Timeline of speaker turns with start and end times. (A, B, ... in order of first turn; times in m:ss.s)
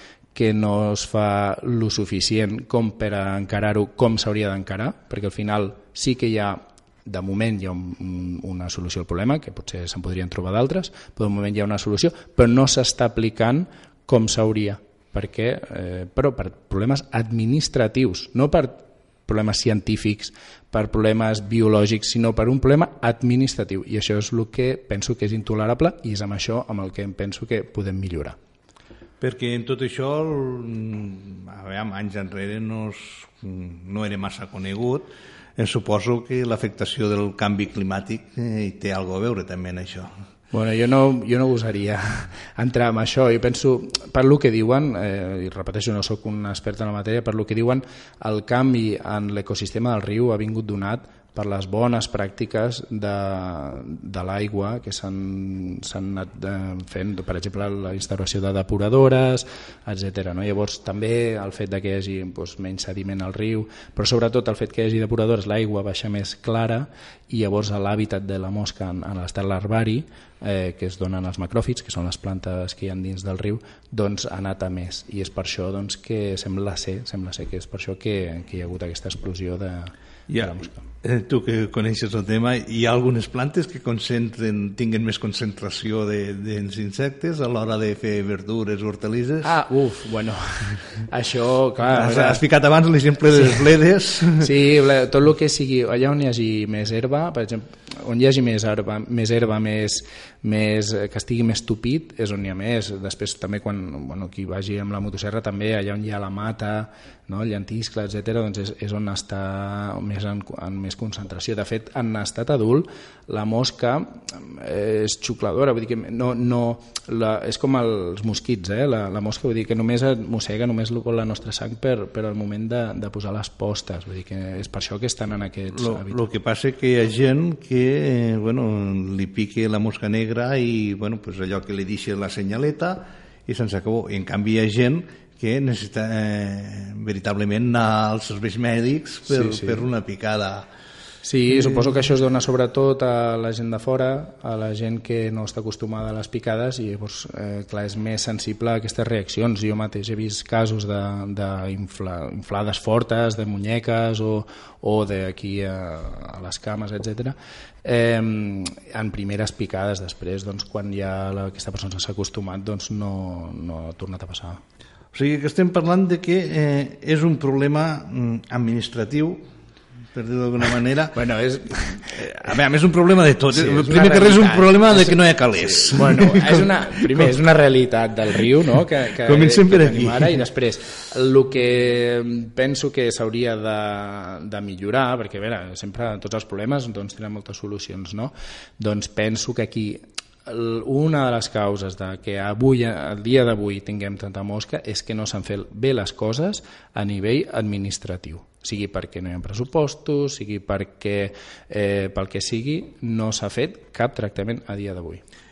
0:00.3-0:28.4 A
0:29.2-0:40.1 B
0:40.5-1:20.8 A
1:20.3-1:29.5 B
1:29.4-1:32.4 A
1:31.9-1:34.5 B
1:34.4-2:06.2 A
2:05.7-2:20.7 B
2:19.3-2:19.8 A
2:21.2-2:44.6 A
2:21.5-2:21.9 B
2:45.1-2:49.4 B
2:50.1-2:51.2 B
2:51.1-2:52.2 A
2:52.1-2:57.3 B
2:53.5-3:25.2 A
2:59.2-3:00.3 B